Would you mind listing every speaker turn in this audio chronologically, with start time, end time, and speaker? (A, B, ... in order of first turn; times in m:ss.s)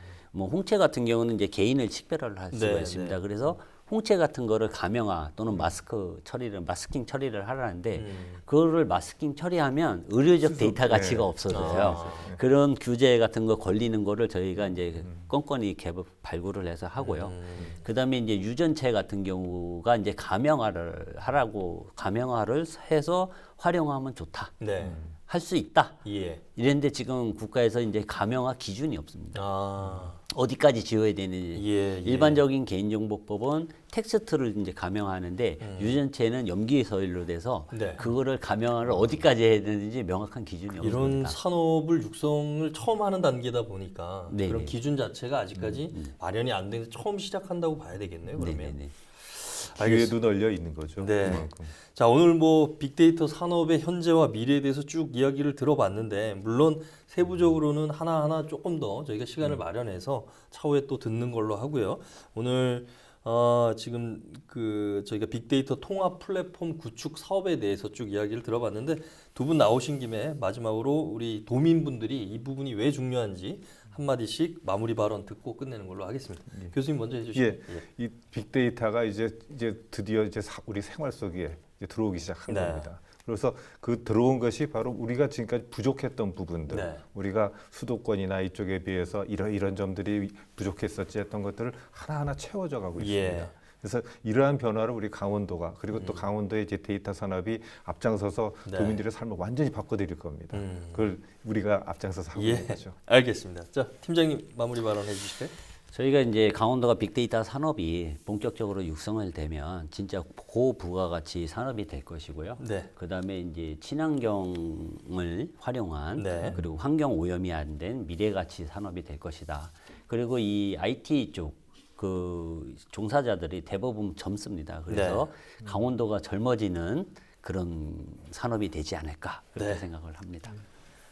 0:00.3-0:24.6 A
0:02.5-0:03.2 B
0:07.9-0:08.4 B
0:10.4-0:12.4 C
0:11.5-0:12.3 B
0:15.0-0:15.3 C
0:17.0-0:17.8 B
0:24.6-0:25.0 B
0:24.8-0:25.2 C
0:25.2-0:29.4 A
0:26.0-0:26.4 B
0:29.3-0:30.2 B
0:30.2-0:41.4 A
0:31.6-0:32.4 B
0:35.6-0:36.0 B
0:37.7-0:38.1 B
0:40.8-0:48.8 B
0:44.3-0:44.8 A
0:45.6-0:46.1 A
0:48.4-0:48.9 A
0:49.5-0:50.2 B
0:49.6-0:51.7 C
0:51.0-1:17.8 B
1:17.3-1:43.0 C
1:22.5-1:22.9 B
1:26.7-1:27.0 B
1:33.0-1:33.5 B
1:35.9-1:36.3 B
1:38.6-1:39.0 B
1:40.5-1:41.1 B
1:42.4-1:45.5 B
1:45.9-2:10.6 A
1:52.6-1:52.9 B
1:56.2-1:56.6 B
1:56.5-1:56.8 C
2:04.9-2:05.3 B
2:09.6-2:09.8 B